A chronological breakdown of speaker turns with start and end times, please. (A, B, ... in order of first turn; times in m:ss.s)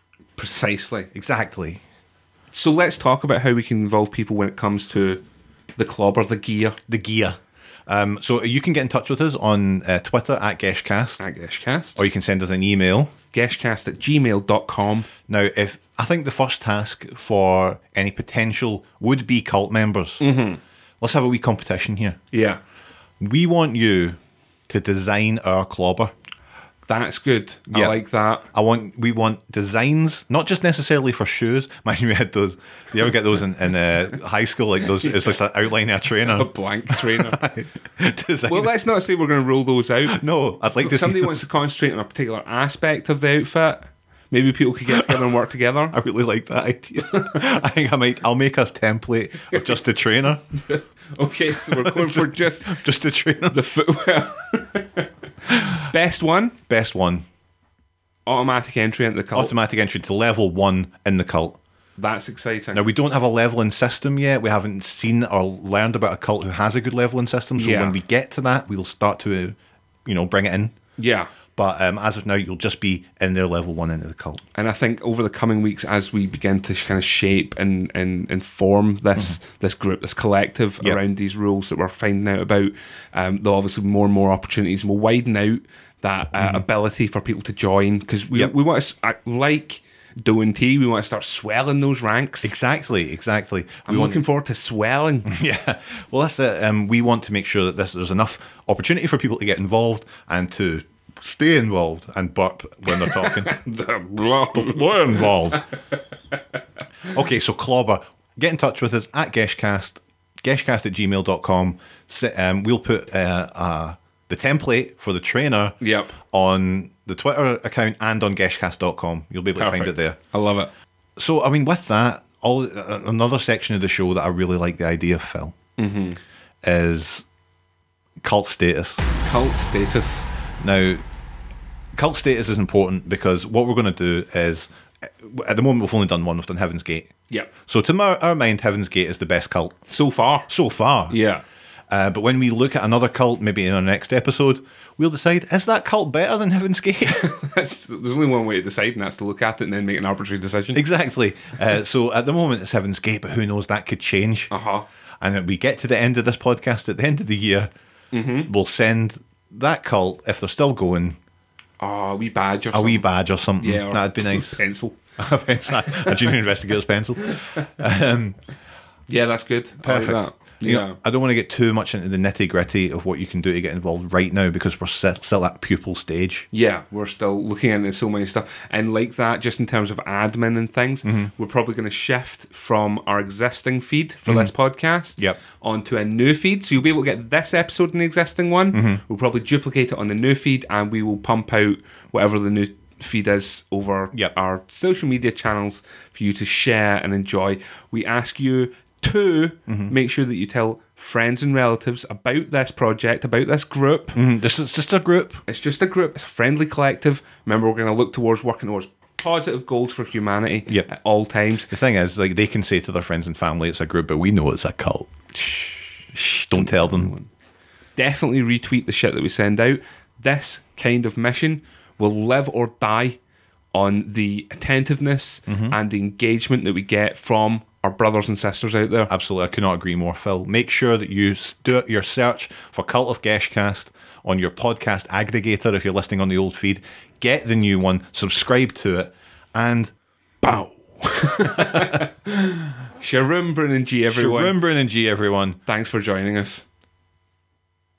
0:00.4-0:01.1 A
0:01.1-0:01.8 B
0:02.5-0:05.2 A
0:05.8-0:06.8 A
0:06.9-0:11.2 B
0:11.2-0:12.0 A
0:12.0-0:13.1 B
0:13.3-0:15.1 A
0:15.3-0:20.2 B
0:20.2-0:20.6 A
0:21.0-0:22.2 B
0:22.3-0:22.6 A
0:23.2-0:24.2 B
0:24.7-0:26.1 B
0:26.8-0:28.5 A
0:27.7-0:28.0 B
0:28.5-0:38.7 B
0:36.2-0:37.4 A
0:38.5-0:40.2 A
0:40.1-0:41.4 B
0:40.8-0:46.0 A
0:44.9-0:45.2 B
0:45.9-0:50.4 B
0:50.6-0:52.8 A
0:51.5-0:53.7 B
0:53.5-0:56.6 A
0:56.7-0:57.2 B
0:58.2-0:59.5 A
0:59.3-1:01.6 B
1:02.0-1:02.8 A
1:02.7-1:10.7 B
1:07.6-1:08.0 A
1:11.0-1:11.3 A
1:11.5-1:14.4 B
1:14.5-1:32.5 A
1:26.4-1:26.6 B
1:32.4-1:34.2 B
1:33.8-1:35.3 A
1:35.2-1:43.5 B
1:43.0-1:45.3 A
1:44.5-1:45.6 B
1:47.1-2:00.2 B
1:55.8-1:56.2 A
1:59.6-2:00.7 A
2:01.2-2:05.6 B
2:05.8-2:06.2 A
2:06.6-2:07.2 B
2:08.2-2:09.0 B
2:09.2-2:10.3 A
2:10.6-2:11.0 B
2:11.9-2:17.1 B
2:17.7-2:19.8 B
2:19.9-2:20.5 A
2:20.5-2:21.2 B
2:21.1-2:21.4 A
2:21.9-2:27.3 B
2:27.0-2:30.8 A
2:30.7-2:34.5 B
2:34.5-2:34.8 A
2:35.2-2:37.7 B
2:38.1-2:38.5 A
2:38.5-2:41.2 B
2:41.8-2:43.0 A
2:42.7-2:44.6 B
2:43.6-2:45.0 A
2:45.2-2:48.4 B
2:47.3-2:47.6 A
2:49.1-2:51.0 A
2:49.8-2:56.5 B
2:56.5-3:24.2 A
3:01.0-3:01.3 B
3:04.2-3:04.5 B
3:08.7-3:09.0 B
3:19.7-3:19.9 B
3:24.1-3:25.4 B
3:25.5-3:31.7 A
3:31.7-3:35.4 B
3:35.4-3:35.9 A
3:36.1-3:37.1 B
3:36.5-3:37.3 A
3:38.0-3:43.2 A
3:43.7-3:49.1 A
3:45.5-3:45.8 B
3:49.1-3:59.9 B
4:00.4-4:04.6 A
4:01.5-4:02.0 B
4:04.1-4:05.6 B
4:05.7-4:06.6 A